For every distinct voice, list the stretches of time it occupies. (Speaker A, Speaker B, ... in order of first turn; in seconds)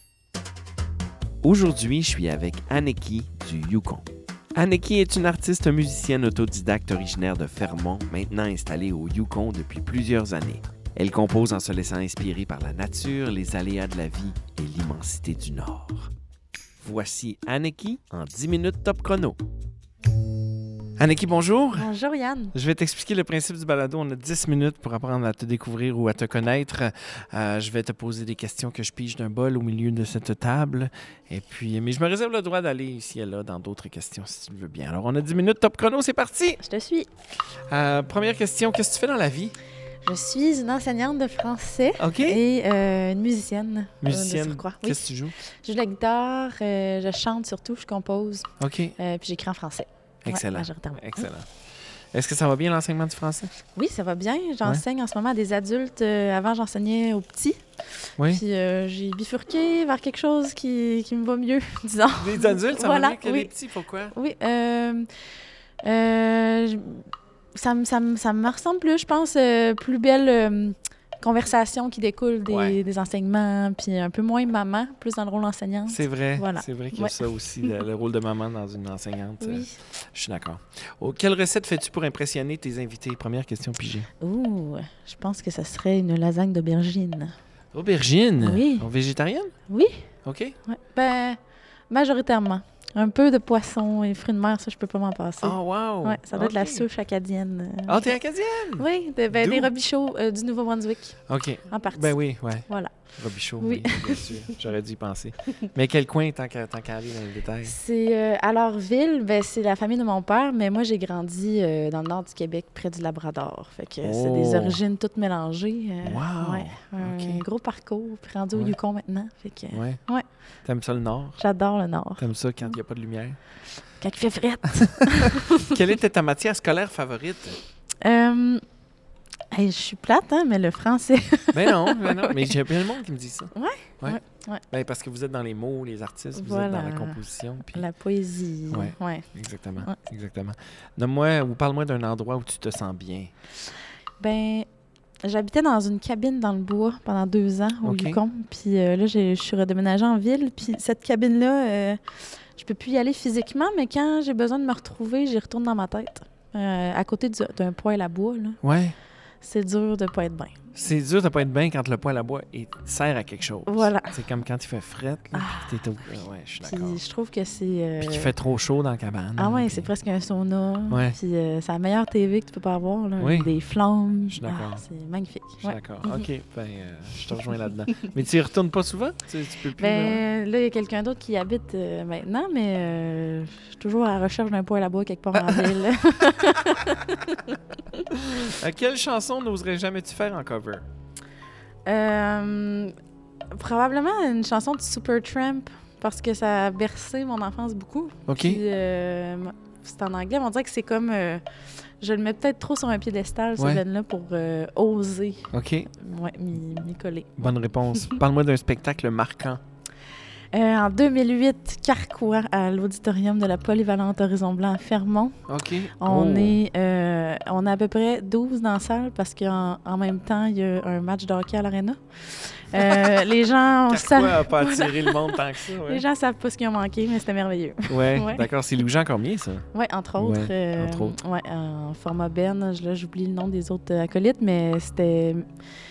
Speaker A: 1.4-16.1, 16.8-19.4, 21.0-21.9, 22.5-36.6, 37.4-39.5, 42.0-42.4, 44.0-45.4, 48.6-49.0, 50.2-53.5, 62.1-64.1, 72.5-72.8, 75.9-84.1, 87.7-89.5, 90.2-90.6, 95.4-96.8, 97.9-99.7, 101.3-107.8, 114.0-114.8, 116.0-117.4, 119.7-120.0, 120.6-121.4, 122.2-123.4, 124.7-127.6, 131.5-134.2, 134.7-137.8, 138.7-143.3, 147.8-148.2, 158.6-158.9, 160.7-167.0, 168.0-169.9, 170.9-171.2, 173.2-173.5, 174.3-174.8, 175.6-180.2, 188.1-190.8, 198.3-198.6, 203.6-203.8, 205.5-205.9, 207.4-209.6, 215.5-216.6, 222.8-223.2, 223.9-226.0, 227.9-229.6, 230.2-231.2
Speaker B: 21.8-22.5, 36.6-37.1, 40.0-51.3, 53.7-63.5, 64.1-65.1, 65.8-77.8, 79.4-79.8, 84.2-87.3, 88.4-88.8, 89.7-90.1, 90.6-91.4, 91.9-98.2, 98.7-103.0, 103.6-104.5, 107.6-120.2, 121.4-122.8, 124.0-125.8, 128.0-128.6, 129.5-132.5, 133.5-134.6, 136.3-140.0, 144.2-144.7, 145.2-158.6, 159.4-160.6, 163.7-164.2, 165.3-166.0, 166.6-168.3, 169.4-176.3, 179.8-188.0, 191.8-192.9, 193.5-201.4, 202.0-208.2, 210.5-215.4, 215.9-228.5, 229.7-235.5